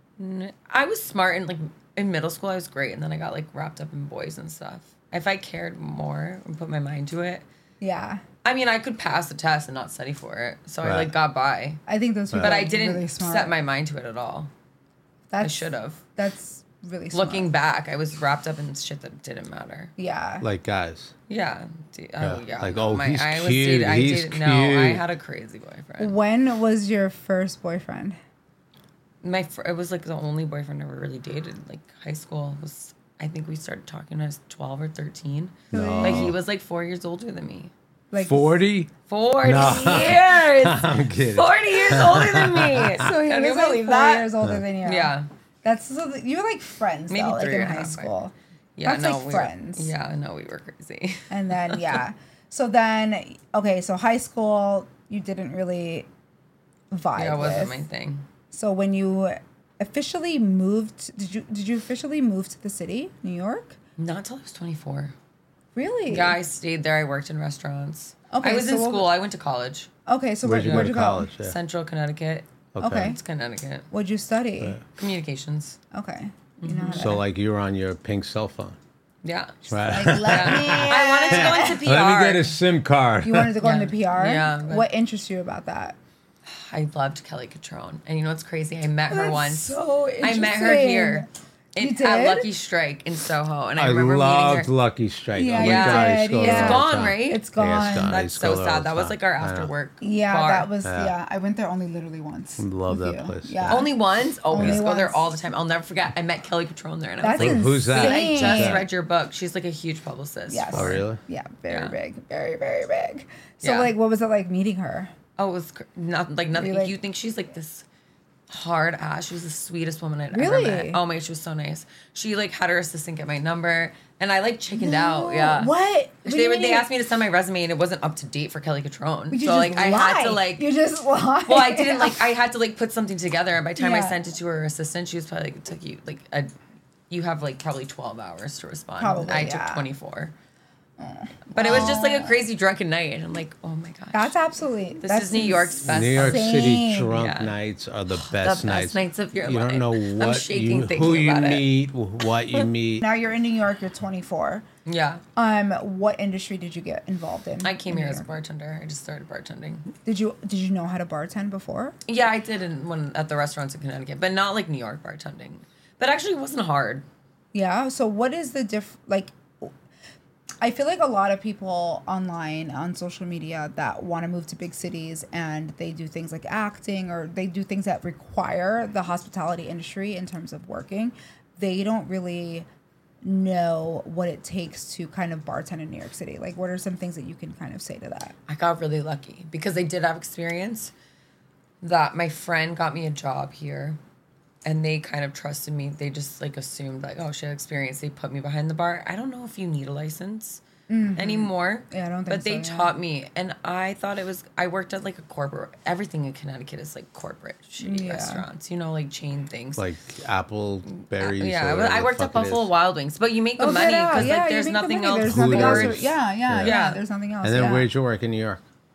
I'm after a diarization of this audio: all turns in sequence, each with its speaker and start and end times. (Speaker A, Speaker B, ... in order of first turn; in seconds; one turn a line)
Speaker A: 0.2-7.5
Speaker B: 7.8-8.2
Speaker A: 8.4-11.8
Speaker C: 10.8-11.1
Speaker B: 11.9-13.5
Speaker C: 12.3-12.6
Speaker A: 12.4-14.5
Speaker B: 15.3-17.5
Speaker A: 15.4-16.0
Speaker A: 17.1-19.9
Speaker B: 20.0-20.5
Speaker C: 20.4-21.1
Speaker A: 21.3-26.1
Speaker C: 22.2-25.0
Speaker B: 26.0-28.2
Speaker A: 29.2-37.7
Speaker C: 35.7-36.4
Speaker B: 35.7-36.4
Speaker B: 38.1-38.6
Speaker C: 38.2-38.9
Speaker A: 39.1-45.3
Speaker C: 39.4-43.1
Speaker B: 43.0-48.3
Speaker A: 47.1-48.1
Speaker A: 48.8-52.0
Speaker B: 48.8-49.9
Speaker B: 51.3-56.1
Speaker B: 56.9-57.8
Speaker A: 57.2-58.2
Speaker B: 58.5-63.8
Speaker A: 64.0-65.2
Speaker B: 65.8-66.4
Speaker A: 66.1-69.9
Speaker B: 68.3-69.1
Speaker B: 70.1-71.3
Speaker C: 70.4-71.6
Speaker A: 70.6-73.9
Speaker C: 72.8-73.2
Speaker B: 72.8-73.2
Speaker B: 73.9-74.8
Speaker A: 75.0-75.8
Speaker B: 75.9-77.2
Speaker A: 76.6-77.2
Speaker C: 77.0-78.8
Speaker A: 79.2-82.5
Speaker C: 79.7-83.5
Speaker B: 79.8-81.8
Speaker B: 83.2-86.0
Speaker A: 83.6-84.9
Speaker A: 86.5-94.7
Speaker B: 89.1-91.3
Speaker B: 91.8-92.5
Speaker C: 93.8-99.7
Speaker B: 95.3-98.2
Speaker A: 95.6-100.7
Speaker B: 100.0-103.9
Speaker C: 100.8-101.2
Speaker C: 102.6-103.9
Speaker A: 103.7-111.0
Speaker B: 104.5-105.3
Speaker C: 104.6-104.8
Speaker B: 107.2-108.9
Speaker C: 107.4-108.9
Speaker B: 110.5-115.1
Speaker C: 110.7-111.2
Speaker A: 111.7-111.9
Speaker A: 113.6-113.9
Speaker A: 115.4-117.8
Speaker B: 116.5-116.9
Speaker A: 118.5-125.7
Speaker B: 120.3-121.0
Speaker B: 124.8-126.9
Speaker A: 126.2-130.7
Speaker B: 129.3-132.2
Speaker A: 131.5-136.5
Speaker B: 133.8-134.2
Speaker A: 137.1-140.3
Speaker B: 139.0-139.9
Speaker B: 141.0-142.4
Speaker A: 141.5-144.3
Speaker B: 144.1-147.2
Speaker A: 145.0-147.5
Speaker C: 145.8-153.0
Speaker A: 148.1-151.7
Speaker B: 153.0-154.7
Speaker A: 154.8-155.2
Speaker B: 155.4-158.3
Speaker A: 157.6-159.9
Speaker B: 160.1-162.0
Speaker A: 162.1-167.1
Speaker B: 167.5-169.7
Speaker B: 170.6-182.7
Speaker B: 183.2-188.4
Speaker A: 188.5-190.9
Speaker A: 191.8-194.0
Speaker A: 194.7-200.6
Speaker B: 200.9-202.9
Speaker A: 201.2-209.9
Speaker B: 207.8-208.4
Speaker C: 209.8-212.7
Speaker A: 210.9-216.0
Speaker B: 213.6-217.9
Speaker C: 215.3-216.8
Speaker A: 216.6-217.0
Speaker C: 217.4-218.6